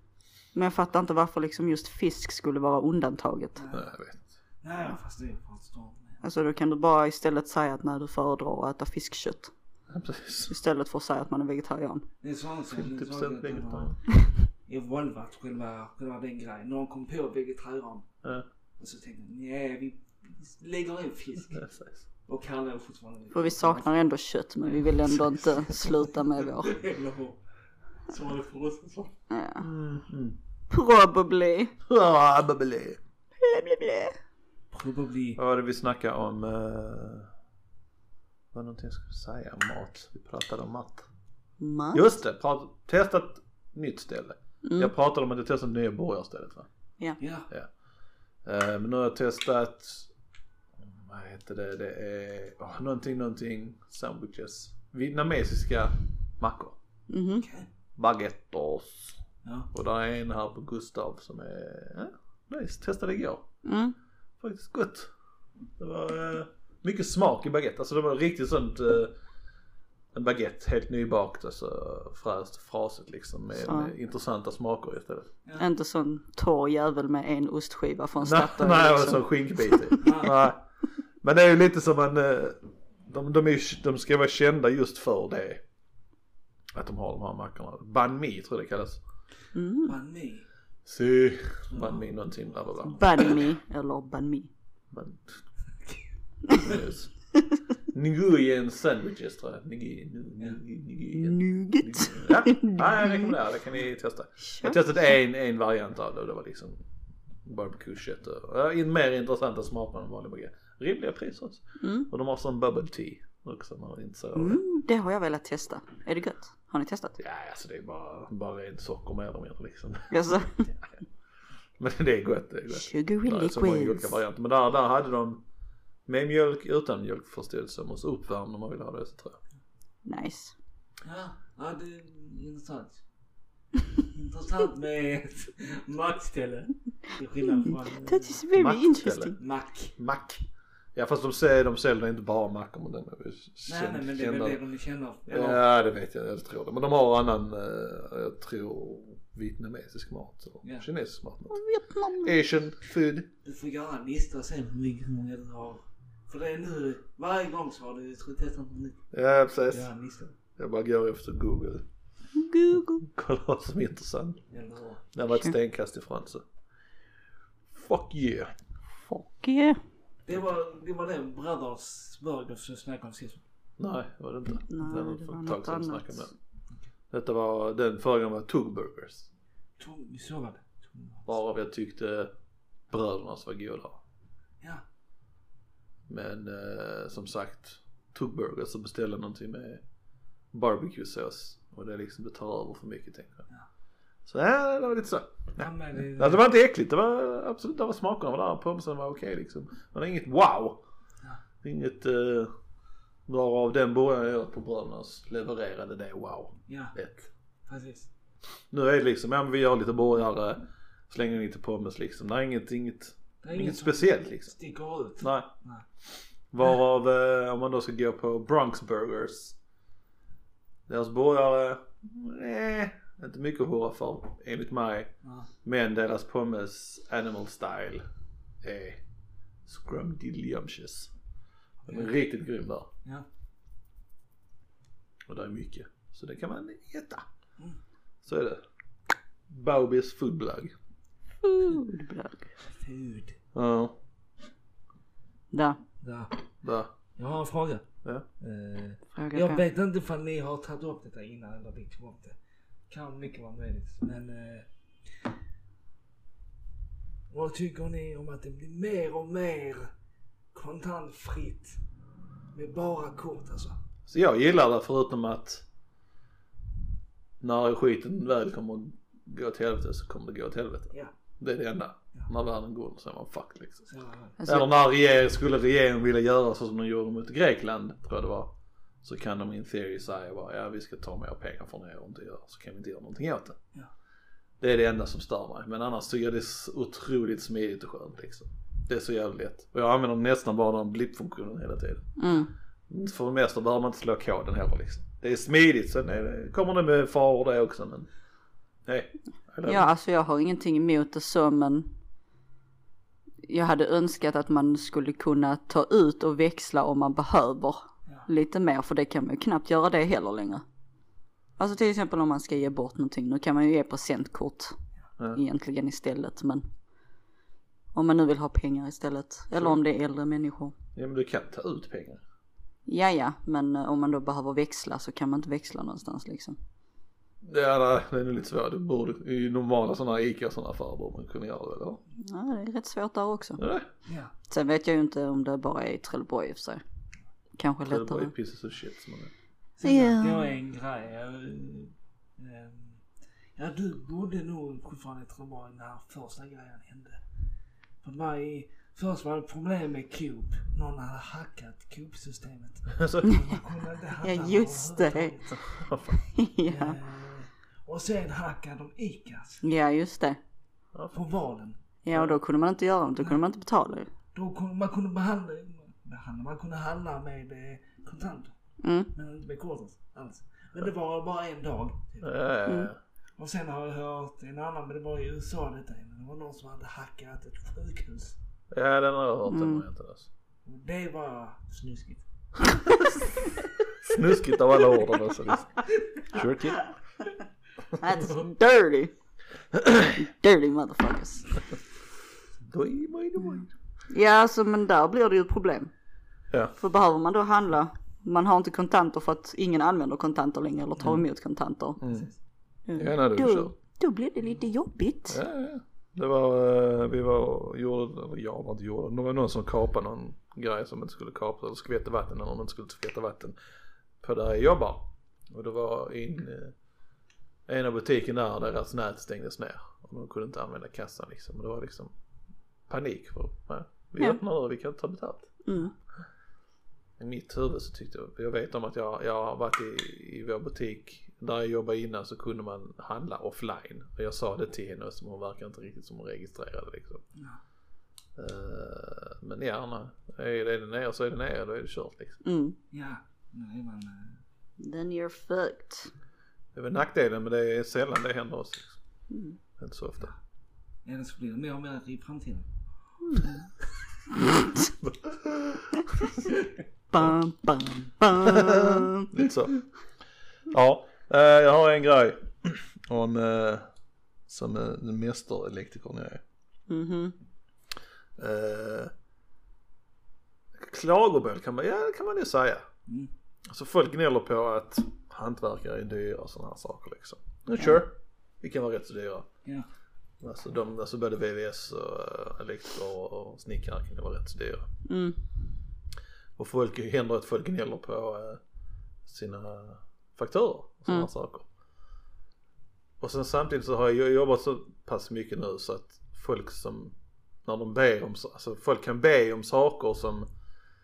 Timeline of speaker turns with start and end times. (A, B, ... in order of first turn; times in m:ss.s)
0:00.6-0:03.6 A
0:03.6-0:03.8 B
0:03.7-0:04.3 C
0:04.6-0:06.2 B
0:06.2-0:09.5 A
0:09.9-0:10.5 C
0:10.5-0:12.1 A
0:12.2-0:14.0 B
0:12.8-0:14.0 C
0:14.7-0:18.1 B
0:18.8-0:21.6 B
0:21.5-0:22.0 C
0:22.3-0:23.9 B
0:23.3-0:26.8 A
0:26.4-0:27.4 B
0:28.1-0:29.1 B
0:29.3-0:29.7 A
0:29.6-0:30.4 C
0:30.7-0:31.7 A
0:31.9-0:33.0 C
0:33.4-0:34.2 A
0:34.7-0:35.4 B
0:35.4-0:37.3 C
0:38.5-0:41.1 C
0:41.6-0:42.0 A
0:41.9-0:46.7 C
0:44.6-0:44.9 A
0:47.2-0:47.5 B
0:48.4-0:50.1 C
0:50.8-0:56.8 C
0:57.1-0:57.5 A
0:58.0-0:59.2 C
0:59.4-0:59.7 B
0:59.7-1:03.4 C
1:03.6-1:04.0 A
1:04.4-1:05.1 C
1:05.8-1:09.1 C
1:10.1-1:15.3 C
1:13.6-1:13.9 A
1:15.6-1:20.1 A
1:18.2-1:20.6 C
1:20.0-1:20.3 B
1:21.2-1:25.6 C
1:26.7-1:29.0 C
1:29.5-1:30.0 A
1:29.9-1:30.5 B
1:30.9-1:33.3 C
1:31.7-1:32.9 B
1:32.9-1:34.5 A
1:34.9-1:35.4 C
1:36.6-1:37.1 C
1:37.9-1:46.8 C
1:41.1-1:43.4 A
1:44.4-1:44.8 A
1:47.4-1:54.6 C
1:51.8-1:52.1 A
1:54.4-1:57.2 A
1:57.2-2:01.0 C
2:00.1-2:00.7 A
2:01.8-2:05.4 C
2:02.7-2:04.1 A
2:06.1-2:09.4 C
2:10.0-2:10.5 A
2:11.0-2:13.0 B
2:14.0-2:18.4 B
2:17.6-2:19.4 A
2:18.5-2:19.4 C
2:19.4-2:19.9 B
2:20.0-2:20.4 C
2:21.0-2:24.6 C
2:23.7-2:25.6 B
2:25.3-2:31.6 C
2:31.5-2:32.4 A
2:32.2-2:33.3 C
2:33.4-2:39.0 B
2:39.1-2:39.9 C
2:39.7-2:40.4 B
2:40.6-2:41.8 C
2:42.3-2:43.1 A
2:43.0-2:44.4 C
2:44.5-2:45.0 B
2:45.1-2:46.4 C
2:47.7-2:48.5 C
2:49.1-2:49.8 A
2:50.3-2:53.4 B
2:53.8-2:56.3 C
2:54.7-2:56.2 A
2:57.1-2:59.3 C
2:59.8-3:01.3 B
3:01.3-3:02.3 C
3:02.9-3:04.0 C
3:06.1-3:09.8 C
3:10.5-3:13.4 C
3:14.3-3:20.8 C
3:15.6-3:16.4 B
3:21.6-3:22.5 C
3:23.3-3:27.3 C
3:26.7-3:26.9 B
3:27.7-3:28.1 B
3:28.7-3:34.5 C
3:33.4-3:35.8 B
3:35.2-3:35.5 C
3:36.5-3:39.6 C
3:40.9-3:45.1 C
3:45.2-3:45.5 B
3:45.6-3:48.0 C
3:48.6-3:49.0 C
3:49.7-3:51.1 C
3:51.9-3:52.9 C
3:55.3-3:57.3 C
3:58.2-3:58.6 C
3:59.5-4:00.7 C
4:01.4-4:02.5 A
4:02.6-4:03.4 B
4:03.5-4:04.0 C
4:05.5-4:05.8 A
4:06.0-4:06.3 B
4:06.6-4:06.9 C
4:07.2-4:07.9 B
4:08.4-4:12.4 B
4:09.2-4:09.6 A
4:12.9-4:14.7 B
4:17.3-4:19.9 B
4:20.5-4:21.8 B
4:22.5-4:23.8 B
4:24.1-4:25.6 C
4:27.4-4:33.9 C
4:33.9-4:34.4 B
4:34.4-4:34.7 A
4:34.4-4:43.6 C
4:44.6-4:52.2 C
4:52.2-4:52.5 A
4:52.9-4:58.1 C
4:58.9-4:59.9 C
4:59.6-5:01.9 A
5:03.4-5:10.6 A
5:11.6-5:14.8 A
5:15.3-5:16.7 A
5:17.9-5:20.7 A
5:21.0-5:22.2 C
5:22.9-5:26.6 A
5:27.4-5:32.0 C
5:32.2-5:33.6 A
5:33.6-5:33.9 C
5:34.1-5:34.3 B
5:34.5-5:36.8 A
5:37.6-5:38.3 A
5:37.9-5:39.3 C
5:39.8-5:43.0 B
5:39.8-5:40.5 A
5:43.6-5:47.2 B
5:48.0-5:55.6 B
5:53.0-5:53.4 C
5:54.2-5:55.4 A
5:55.6-5:56.2 C
5:56.3-5:57.0 A
5:56.7-5:59.6 B
5:59.6-6:00.4 A
6:01.1-6:01.8 B
6:02.0-6:04.1 A
6:04.4-6:08.5 B
6:08.8-6:09.1 A
6:09.1-6:12.3 B
6:12.2-6:13.0 C
6:13.4-6:18.4 B
6:18.7-6:20.3 C
6:19.5-6:19.8 A
6:20.7-6:22.2 B
6:24.0-6:26.8 C
6:28.0-6:29.1 A
6:29.8-6:30.1 C
6:30.1-6:31.5 A
6:32.7-6:33.7 C
6:34.1-6:35.9 A
6:36.8-6:42.0 A
6:42.0-6:42.3 C
6:42.0-6:42.3 B
6:42.9-6:45.4 A
6:43.0-6:43.7 C
6:45.3-6:53.6 C
6:54.2-6:56.7 C
6:57.7-7:02.1 C
7:02.9-7:05.5 C
7:05.6-7:05.9 A
7:07.2-7:17.2 C
7:18.4-7:22.4 C
7:22.4-7:22.8 A
7:22.9-7:24.4 B
7:24.8-7:26.1 A
7:26.7-7:29.0 C
7:29.3-7:29.6 A
7:29.8-7:30.3 C
7:31.0-7:32.7 B
7:35.0-7:36.0 C
7:37.1-7:39.3 A
7:38.4-7:39.8 C
7:40.7-7:43.9 C
7:44.5-7:46.4 C
7:46.9-7:47.4 A
7:48.4-7:49.1 C
7:50.7-7:52.8 C
7:53.7-7:59.5 C
8:00.4-8:04.9 C
8:05.1-8:05.4 A
8:06.6-8:08.6 C
8:09.3-8:11.7 C
8:13.2-8:20.5 C